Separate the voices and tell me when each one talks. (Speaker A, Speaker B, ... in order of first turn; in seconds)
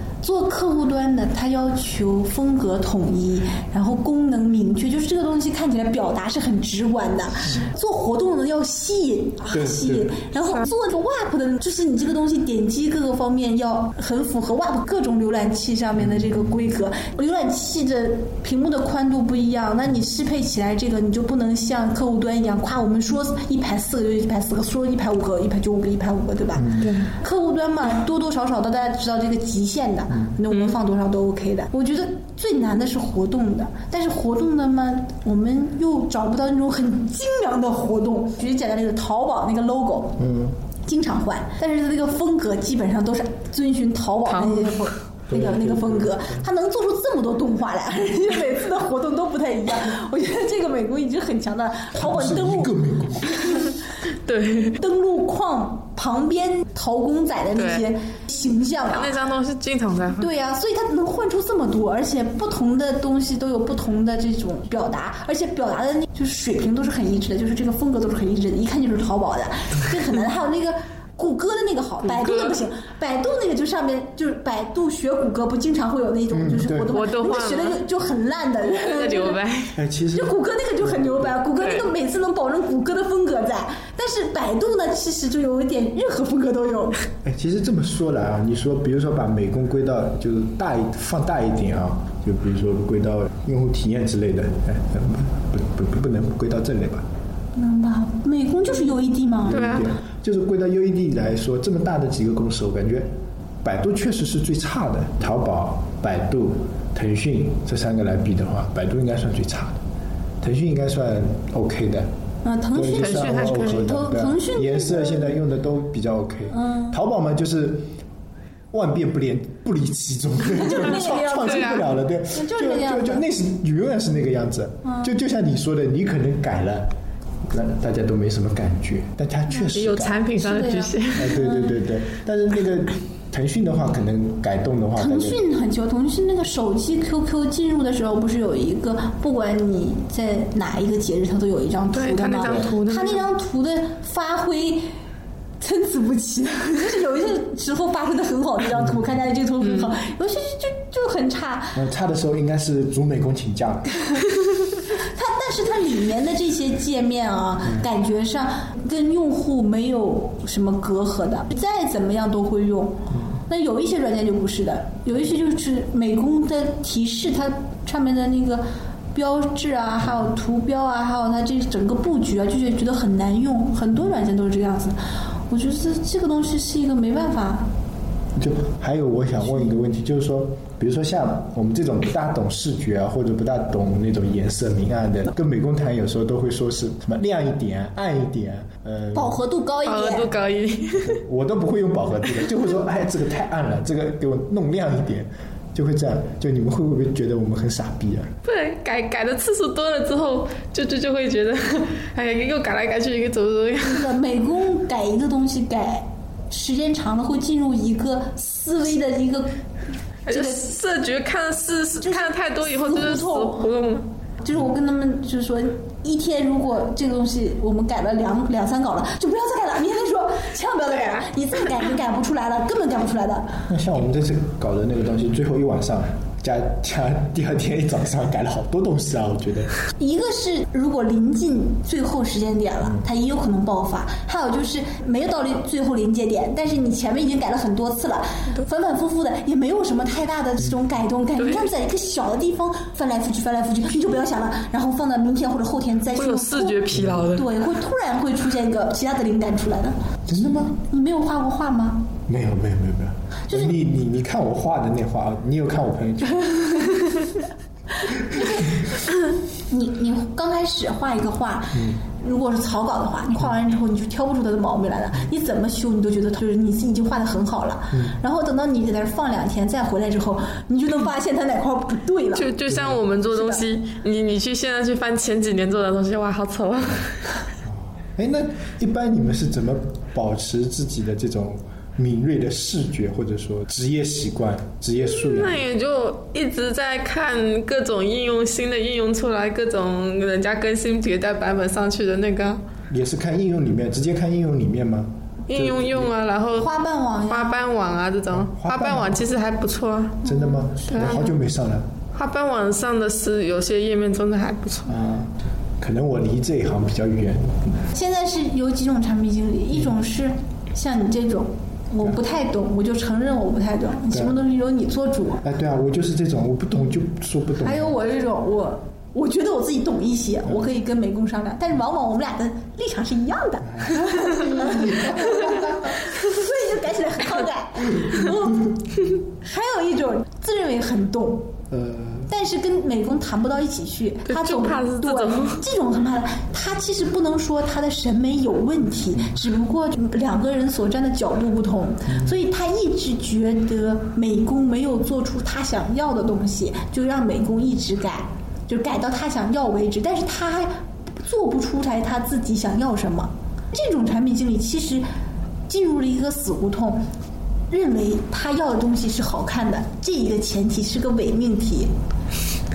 Speaker A: 0.2-40.2, 40.8-52.7, 53.2-53.7, 54.7-59.1, 60.2-79.4, 80.1-87.0, 97.5-99.7, 112.4-115.4, 116.5-116.9, 120.5-123.2, 130.3-131.8, 135.0-144.8, 145.6-151.8, 154.9-163.0, 163.5-174.9, 175.5-177.7, 189.1-190.3, 203.8-209.5, 210.3-210.7, 212.0-213.7, 214.4-223.6, 230.0-250.0, 250.9-252.1, 253.5-253.7, 258.3-258.7, 259.7-272.5, 273.3-273.6, 296.6-297.6, 300.2-301.3, 307.9-315.4, 317.6-331.5, 332.3-355.0, 355.7-357.0, 357.7-361.9
Speaker B: 9.5-10.2, 16.1-16.4, 26.5-26.9, 30.1-30.4, 40.2-40.5, 45.3-46.4, 51.9-53.7, 76.3-76.9, 79.7-81.4, 87.2-97.0, 99.5-103.1, 103.6-109.8, 110.4-112.1, 112.7-117.9, 118.7-126.9, 127.4-130.2, 131.1-135.4, 142.4-142.7, 151.7-153.9, 163.1-163.4, 178.3-189.4, 191.0-198.3, 223.7-229.7, 246.9-247.2, 250.3-250.8, 252.3-256.9, 261.7-262.0, 267.9-268.2, 272.7-273.0, 277.6-285.6, 292.9-296.1, 298.5-299.2, 300.2-301.9, 304.9-307.8, 314.1-314.4, 315.4-317.9, 320.4-320.7, 323.8-326.0, 327.9-328.3, 331.7-332.3, 342.1-342.3
Speaker C: 26.8-27.1, 44.2-44.9, 54.1-54.8, 57.5-57.9, 58.9-60.3, 72.1-72.6, 76.9-77.8, 78.6-79.8, 81.6-81.9, 99.5-99.9, 113.0-113.8, 121.4-121.9, 129.7-131.4, 141.9-143.2, 149.6-149.9, 189.8-191.2, 198.4-204.1, 210.3-214.1, 241.4-241.7, 246.1-247.4, 272.3-277.5, 285.0-292.6, 295.5-296.7, 297.3-300.2, 300.9-301.2, 302.1-305.0, 334.2-335.6